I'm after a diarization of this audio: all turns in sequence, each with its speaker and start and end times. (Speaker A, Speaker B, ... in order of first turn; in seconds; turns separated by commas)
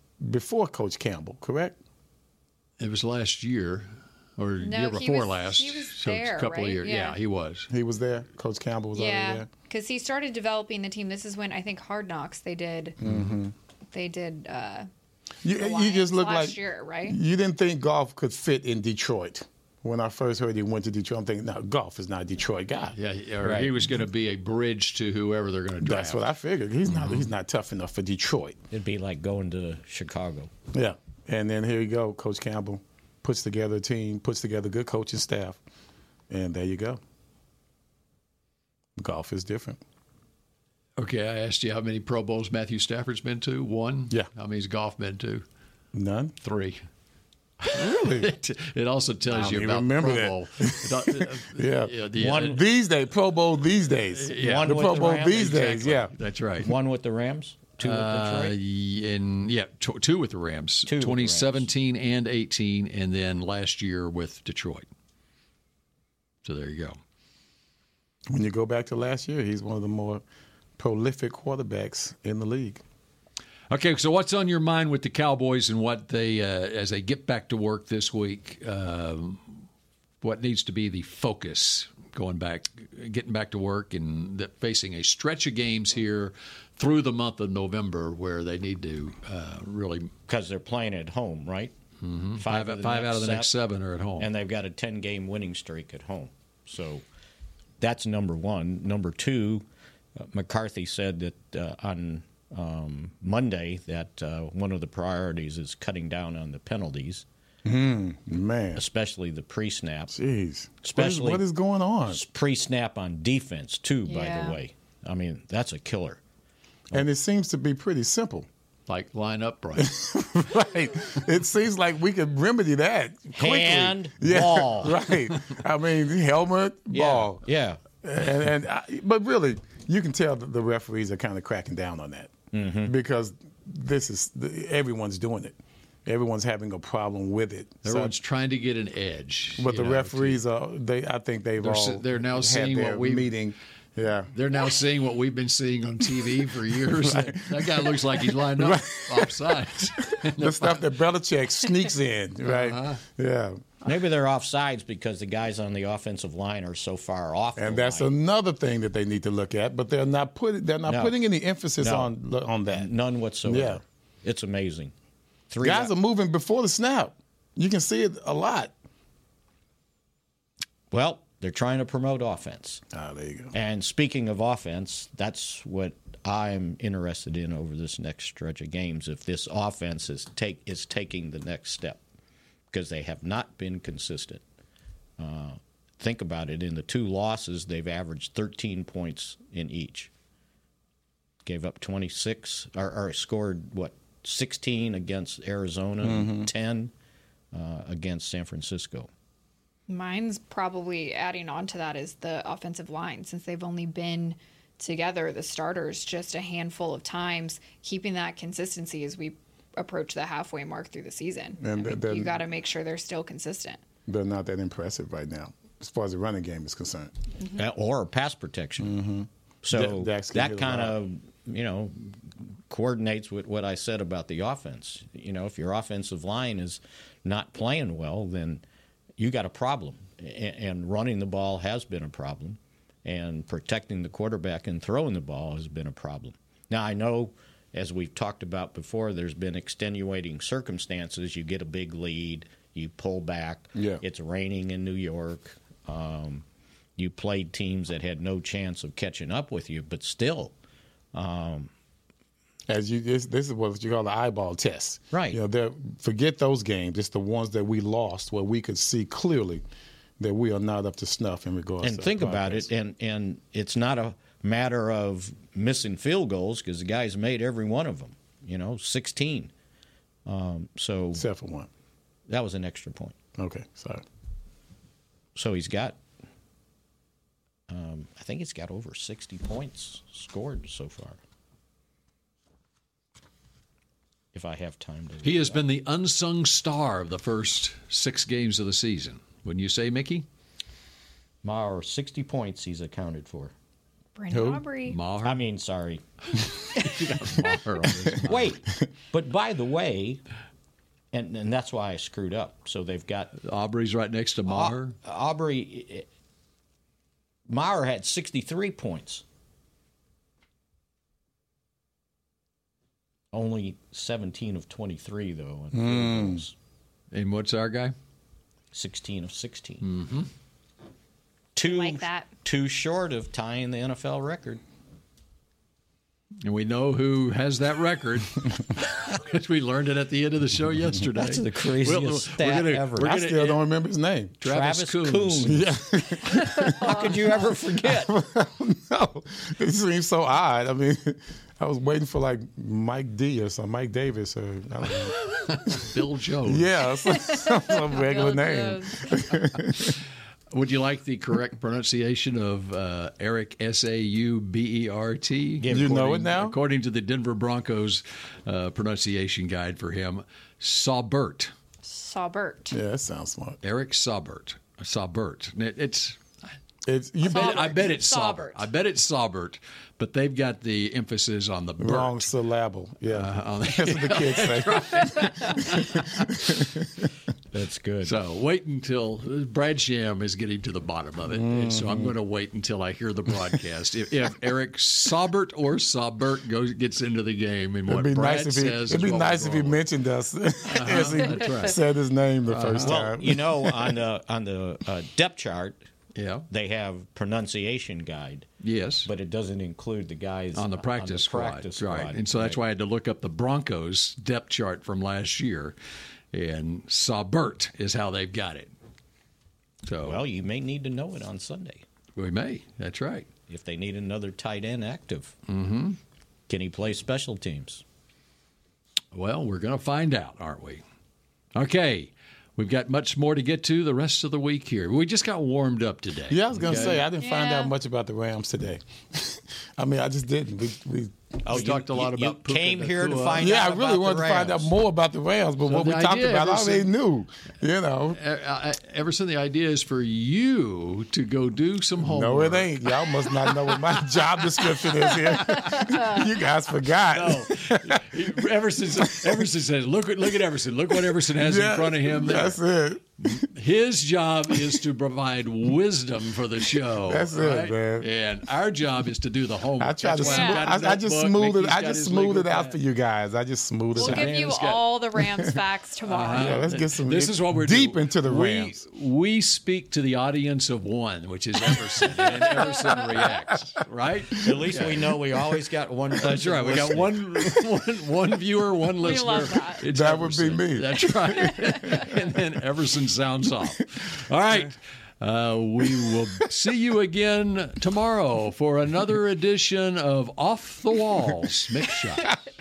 Speaker A: 0.2-1.8, Speaker B: 2.8-7.7, Speaker C: 4.6-7.2, Speaker A: 7.7-9.5, Speaker C: 8.9-13.0, Speaker A: 13.0-13.5, Speaker B: 13.0-13.4, Speaker C: 13.9-14.9, Speaker A: 15.4-22.9, Speaker C: 15.5-17.2, Speaker B: 22.9-26.3, Speaker D: 23.4-23.8, Speaker A: 25.8-28.6, Speaker B: 26.9-27.3, Speaker D: 28.7-30.5, Speaker A: 30.7-35.6, Speaker A: 36.3-37.0, Speaker A: 39.0-39.8, Speaker B: 41.0-45.5, Speaker A: 45.9-46.3, Speaker B: 46.4-46.8, Speaker A: 47.7-48.3, Speaker B: 47.9-52.6, Speaker A: 49.3-56.1, Speaker D: 52.2-52.6, Speaker B: 54.1-55.0, Speaker D: 54.4-58.6, Speaker B: 56.1-56.7, Speaker B: 57.8-64.9, Speaker D: 60.9-61.7, Speaker B: 66.5-67.0, Speaker A: 68.3-70.2, Speaker A: 70.8-72.8, Speaker B: 73.7-79.5, Speaker B: 80.2-90.1, Speaker D: 90.3-91.8, Speaker B: 92.0-94.3, Speaker D: 92.4-93.5, Speaker D: 94.2-97.0, Speaker D: 97.8-99.7, Speaker D: 100.2-107.2, Speaker A: 107.7-108.8, Speaker D: 108.8-110.2, Speaker A: 110.1-112.2, Speaker D: 110.8-111.5, Speaker D: 112.1-116.2, Speaker C: 114.1-114.6, Speaker A: 116.9-118.5, Speaker B: 118.9-119.9, Speaker A: 119.8-127.4, Speaker D: 123.4-125.0, Speaker D: 126.9-127.8, Speaker A: 128.0-132.3, Speaker D: 132.5-132.9, Speaker A: 132.8-138.1, Speaker B: 137.8-140.4, Speaker A: 139.6-144.3, Speaker B: 141.6-143.4, Speaker B: 144.3-150.8, Speaker A: 147.0-153.8, Speaker B: 152.4-153.0, Speaker D: 153.8-158.1, Speaker A: 157.6-162.9, Speaker D: 160.8-161.2, Speaker D: 161.8-162.1, Speaker D: 162.7-164.9, Speaker A: 163.4-163.8, Speaker D: 165.5-165.9, Speaker A: 165.6-168.7, Speaker D: 170.9-172.8, Speaker A: 172.9-173.5, Speaker D: 173.5-182.0, Speaker D: 182.7-184.4, Speaker D: 185.2-190.1, Speaker D: 191.4-196.9, Speaker A: 196.0-196.5, Speaker D: 197.5-199.1, Speaker C: 199.9-213.8, Speaker A: 211.6-212.4, Speaker A: 214.1-217.1, Speaker D: 217.6-219.0, Speaker A: 218.8-221.0, Speaker D: 219.6-228.6, Speaker D: 229.2-246.4, Speaker A: 243.8-244.0, Speaker D: 247.0-250.5, Speaker D: 251.1-251.7, Speaker A: 252.7-259.6, Speaker D: 255.1-255.4, Speaker A: 260.2-262.7, Speaker D: 261.8-269.5, Speaker D: 270.3-271.3, Speaker A: 271.1-271.7, Speaker D: 272.3-273.2, Speaker A: 273.4-274.0, Speaker D: 275.4-276.0, Speaker D: 277.7-281.2, Speaker D: 284.3-285.7, Speaker B: 285.2-290.3, Speaker D: 291.4-293.5, Speaker C: 294.2-295.0, Speaker A: 294.3-294.6, Speaker B: 294.9-295.4, Speaker D: 295.2-296.0, Speaker B: 296.8-298.6, Speaker D: 298.2-300.2, Speaker D: 301.1-303.3, Speaker B: 303.4-305.0, Speaker D: 304.5-306.1, Speaker D: 307.5-309.2, Speaker D: 313.3-316.6, Speaker A: 315.7-316.4, Speaker B: 317.1-317.9, Speaker D: 318.7-319.9, Speaker B: 319.8-320.3, Speaker D: 321.6-324.6, Speaker C: 321.6-322.3, Speaker B: 326.4-333.6, Speaker D: 331.2-333.1, Speaker A: 333.0-334.4, Speaker B: 334.4-335.6, Speaker D: 334.4-335.8, Speaker A: 335.4-337.1, Speaker D: 336.3-338.1, Speaker C: 336.8-337.2, Speaker A: 337.8-345.9, Speaker B: 345.3-346.7, Speaker A: 346.4-350.0, Speaker C: 347.1-349.2, Speaker B: 350.5-361.5, Speaker D: 355.6-356.3, Speaker A: 355.7-356.6, Speaker C: 361.8-362.8, Speaker A: 362.7-363.6, Speaker B: 363.6-366.2, Speaker A: 366.9-367.9, Speaker B: 367.2-372.3, Speaker C: 367.2-368.7, Speaker A: 371.8-377.1, Speaker B: 373.1-376.6, Speaker D: 377.5-378.2, Speaker B: 378.0-389.8, Speaker A: 381.3-382.1, Speaker A: 387.9-394.0, Speaker B: 390.7-391.8, Speaker B: 392.5-393.1, Speaker D: 392.8-395.9, Speaker B: 396.1-396.5, Speaker D: 396.5-398.5, Speaker B: 398.6-399.1, Speaker D: 399.0-402.6, Speaker B: 400.6-405.8, Speaker B: 406.3-408.7, Speaker B: 409.8-410.2, Speaker D: 410.0-411.9, Speaker B: 412.2-413.3, Speaker D: 413.5-415.4, Speaker B: 415.5-416.0, Speaker D: 416.5-417.8, Speaker B: 419.1-420.8, Speaker B: 421.6-427.1, Speaker A: 426.3-431.3, Speaker C: 427.2-427.7, Speaker D: 431.4-434.7, Speaker B: 431.5-433.5, Speaker A: 433.4-438.2, Speaker B: 435.7-436.9, Speaker B: 438.1-444.0, Speaker A: 442.0-448.0, Speaker B: 445.2-445.8, Speaker C: 445.6-446.0, Speaker B: 447.1-452.6, Speaker A: 449.1-449.4, Speaker A: 451.3-453.5, Speaker B: 453.3-462.8, Speaker A: 456.9-458.1, Speaker A: 459.8-464.3, Speaker C: 460.2-460.7, Speaker B: 463.9-464.8, Speaker C: 464.0-466.7, Speaker A: 465.2-465.6, Speaker B: 466.1-475.1, Speaker A: 466.3-468.8, Speaker C: 472.2-473.0, Speaker D: 474.4-477.2, Speaker B: 476.2-492.3, Speaker C: 479.0-479.8, Speaker A: 479.9-482.2, Speaker A: 485.9-486.1